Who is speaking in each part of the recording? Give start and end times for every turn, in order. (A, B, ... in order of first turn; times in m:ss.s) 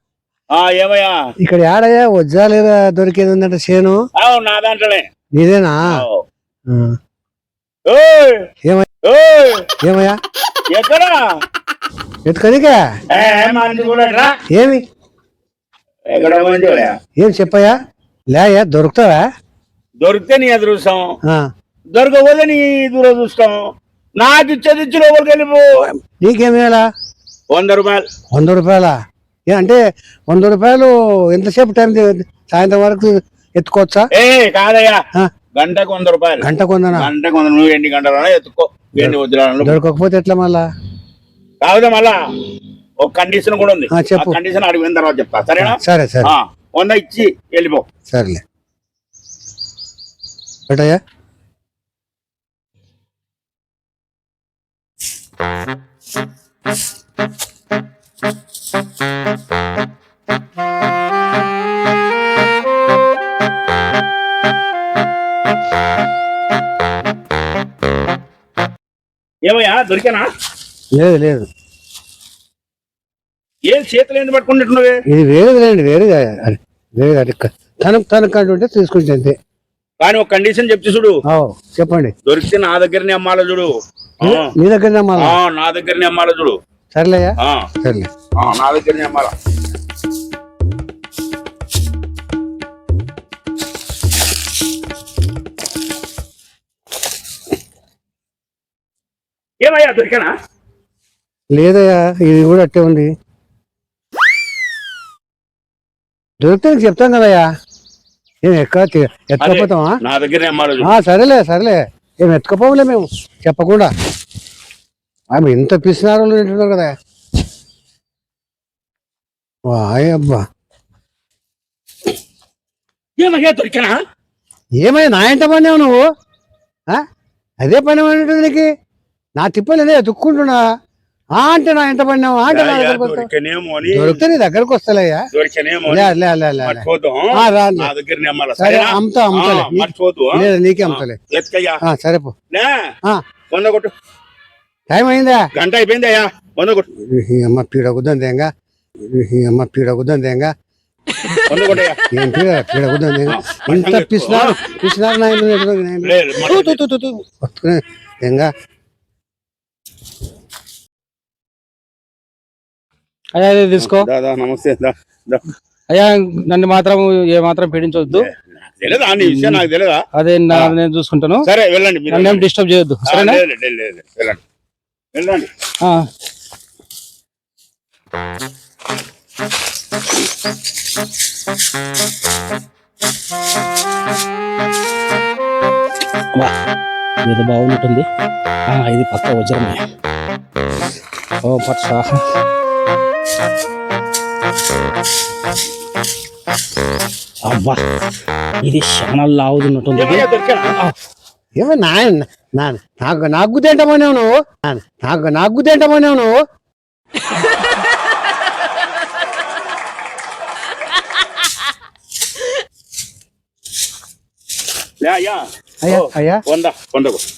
0:00.5-0:01.2 A
0:01.4-0:04.0 B
0:04.2-0:05.1 A
0:05.4-0:06.0 B
0:05.9-0:06.2 A
0:07.9-0:08.4 A
0:09.0-0:09.7 A
0:09.8-0:10.2 B
0:10.7-0:11.2 A
0:12.3-0:12.8 B
0:13.1-0:14.3 A
0:14.5-0:14.8 B
0:16.1-0:17.0 A
0:17.2-0:17.7 B
0:18.3-0:19.2 B
0:20.0-0:21.1 A
0:21.9-0:23.6 A
0:24.2-0:25.6 A
0:26.2-0:26.8 B
0:27.5-0:28.0 A
0:28.3-0:28.9 B
0:29.5-0:29.8 B
0:30.3-0:34.1 B
0:34.1-0:35.0 A
0:35.6-0:39.8 A
0:36.4-0:37.1 B
0:39.0-0:40.6 B
0:41.6-0:42.2 A
0:43.0-0:47.8 A
0:43.9-0:44.4 B
0:45.6-0:46.3 B
0:48.1-0:48.4 B
0:50.7-0:51.0 B
1:09.5-1:10.3 A
1:11.0-1:11.5 B
1:13.7-1:15.0 A
1:15.1-1:19.4 B
1:20.0-1:21.2 A
1:21.3-1:22.1 B
1:22.3-1:24.5 A
1:24.2-1:25.4 B
1:25.2-1:26.6 A
1:26.9-1:28.1 B
1:28.4-1:29.3 A
1:39.6-1:40.3 A
1:41.5-1:43.1 B
1:46.4-1:47.4 B
1:48.4-1:50.0 B
1:49.4-1:50.9 A
1:50.8-1:53.9 B
1:55.3-1:56.9 B
1:59.7-2:00.4 B
2:03.2-2:04.0 A
2:04.8-2:06.0 B
2:07.6-2:08.7 B
2:09.4-2:10.6 B
2:11.4-2:13.3 B
2:12.5-2:14.2 A
2:13.9-2:15.2 B
2:15.3-2:21.8 A
2:15.9-2:17.9 B
2:18.6-2:21.2 B
2:21.9-2:22.3 B
2:23.5-2:23.9 A
2:24.9-2:25.5 B
2:25.6-2:26.9 A
2:27.1-2:28.5 B
2:29.1-2:30.5 B
2:31.5-2:32.0 A
2:32.1-2:38.5 B
2:33.3-2:34.6 A
2:36.0-2:36.8 A
2:43.4-2:44.1 C
2:43.8-2:45.4 A
2:45.9-2:48.3 C
2:48.1-2:50.8 A
2:49.2-2:49.6 C
2:50.2-2:51.4 C
2:51.4-2:52.4 A
2:52.1-2:53.4 C
2:53.1-2:54.4 A
2:55.2-2:55.5 A
3:07.2-3:08.0 C
3:08.7-3:09.8 C
3:11.4-3:12.2 C
3:17.4-3:17.8 C
3:18.6-3:20.2 C
3:20.0-3:20.7 A
3:21.6-3:26.3 B
3:35.0-3:37.2 A
3:35.8-3:36.4 B